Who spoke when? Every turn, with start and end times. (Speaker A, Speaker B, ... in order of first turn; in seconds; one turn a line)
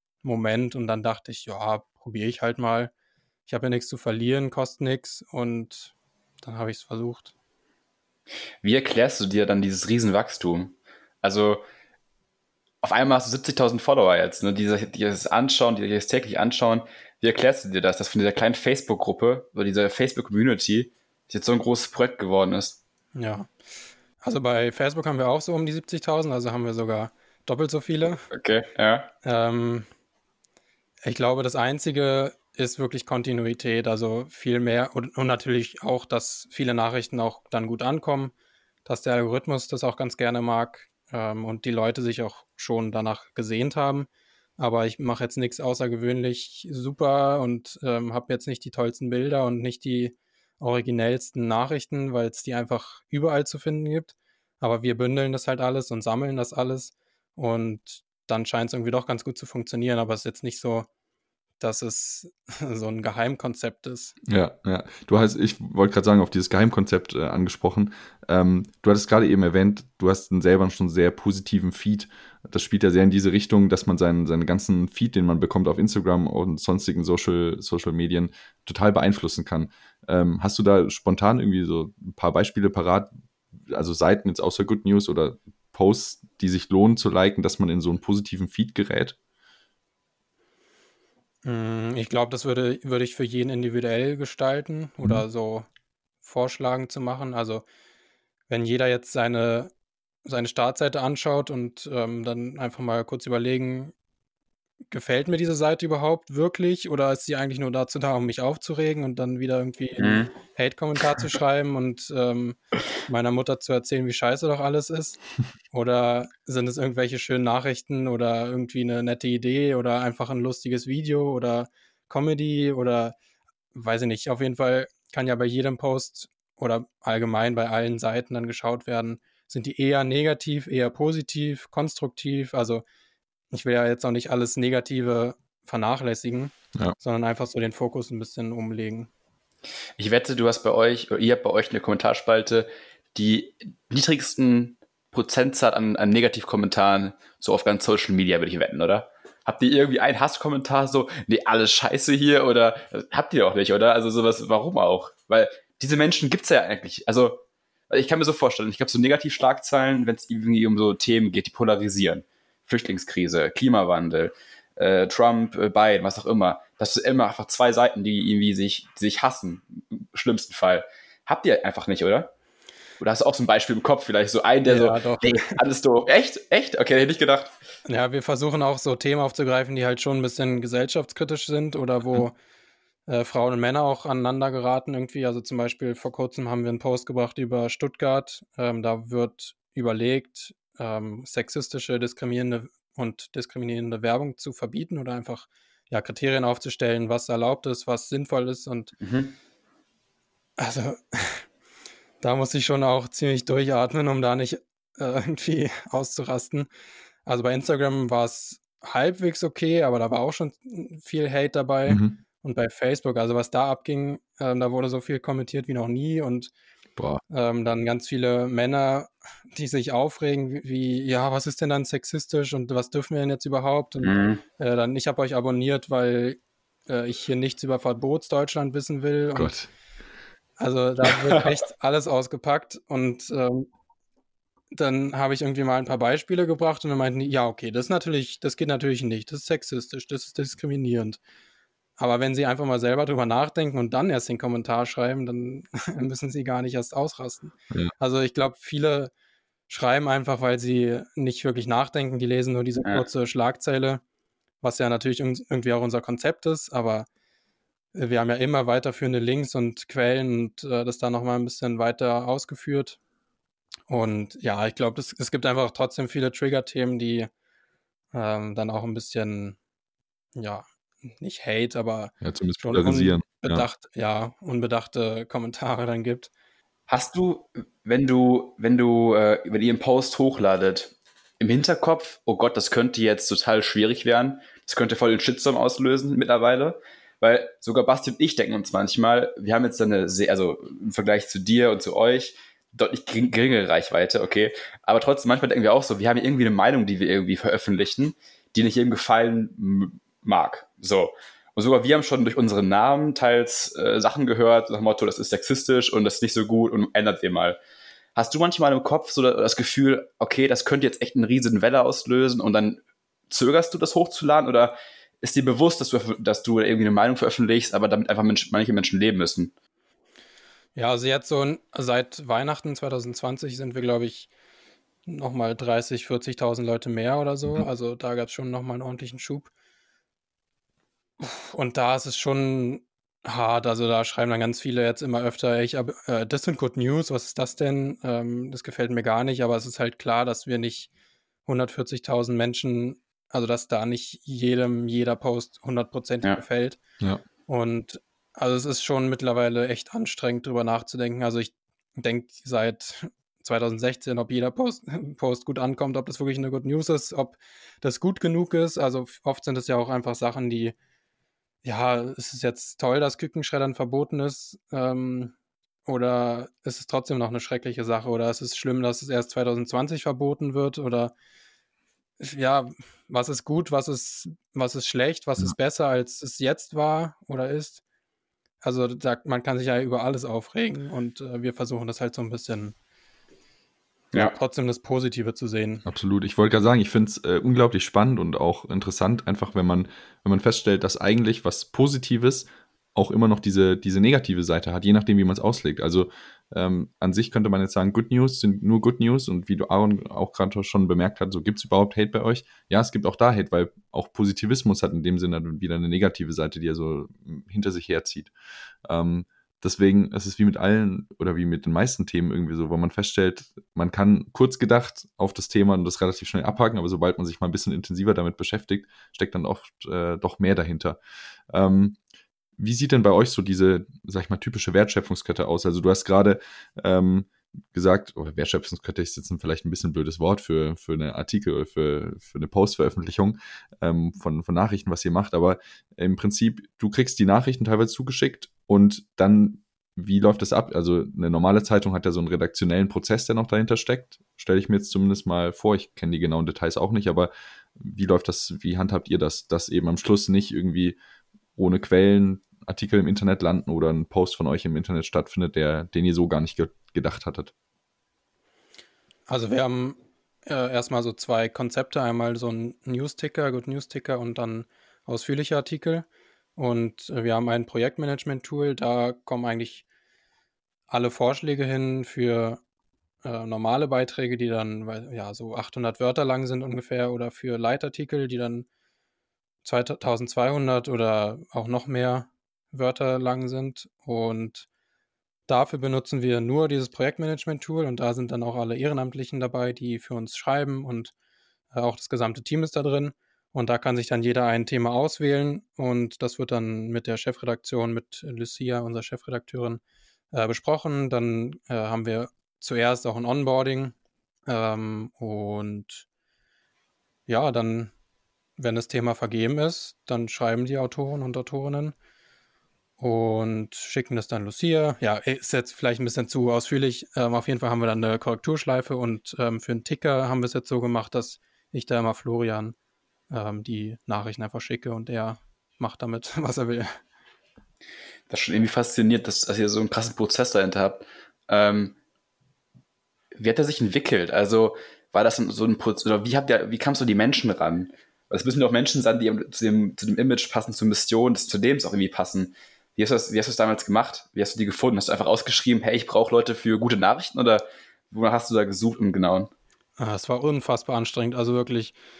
Speaker A: 0.2-2.9
Speaker A: 3.5-7.3
Speaker B: 8.6-11.6
Speaker B: 12.8-22.8
Speaker A: 23.1-23.5
Speaker A: 24.2-28.2
Speaker B: 28.3-29.1
Speaker A: 29.2-29.9
Speaker A: 31.0-38.3
Speaker A: 38.9-60.9
Speaker A: 61.6-64.2
Speaker C: 64.3-83.1
Speaker C: 83.7-89.2
Speaker A: 91.4-95.7
Speaker A: 96.2-97.6
Speaker A: 98.5-99.7
Speaker A: 100.2-103.9
Speaker A: 104.9-123.1
Speaker B: 110.0-110.3
Speaker A: 123.7-132.8
Speaker A: 133.5-139.1
Speaker B: 140.0-172.3
Speaker B: 173.0-177.5
Speaker A: 174.7-175.6
Speaker A: 177.8-182.4
Speaker A: 183.1-198.9
Speaker B: 199.0-199.3
Speaker A: 200.6-201.5
Speaker A: 202.2-206.7
Speaker A: 207.2-216.5
Speaker C: 211.9-212.2
Speaker A: 217.3-229.5
Speaker B: 224.0-224.4
Speaker C: 229.3-229.7
Speaker A: 230.6-233.7
Speaker B: 231.1-231.4
Speaker A: 234.7-241.2
Speaker A: 242.0-249.1
Speaker A: 249.7-254.0
Speaker A: 254.6-257.1
Speaker A: 257.9-263.0
Speaker A: 263.9-267.3
Speaker A: 268.1-269.6
Speaker A: 270.4-276.3
Speaker C: 272.2-273.6
Speaker B: 276.9-307.6
Speaker B: 308.1-319.5
Speaker A: 320.8-324.3
Speaker A: 325.1-329.5
Speaker A: 331.2-340.9
Speaker A: 341.5-346.8
Speaker A: 347.5-360.8
Speaker A: 361.6-365.4
Speaker A: 365.9-371.1
Speaker A: 372.2-377.8
Speaker A: 378.6-382.8
Speaker B: 384.1-384.4
Speaker A: 384.1-385.9
Speaker C: 385.9-408.3
Speaker C: 408.9-421.0
Speaker C: 421.5-422.0
Speaker C: 422.6-451.0
Speaker C: 451.6-457.5
Speaker A: 459.3-469.9
Speaker A: 470.9-472.6
Speaker A: 473.2-478.7
Speaker A: 479.6-484.7
Speaker A: 485.5-491.1
Speaker A: 491.7-499.8
Speaker A: 500.3-503.9
Speaker A: 504.5-506.1
Speaker A: 507.3-507.9
Speaker A: 508.6-511.9
Speaker A: 513.0-522.8
Speaker A: 523.3-526.9
Speaker B: 528.3-532.0
Speaker B: 533.4-549.5
Speaker A: 550.0-552.0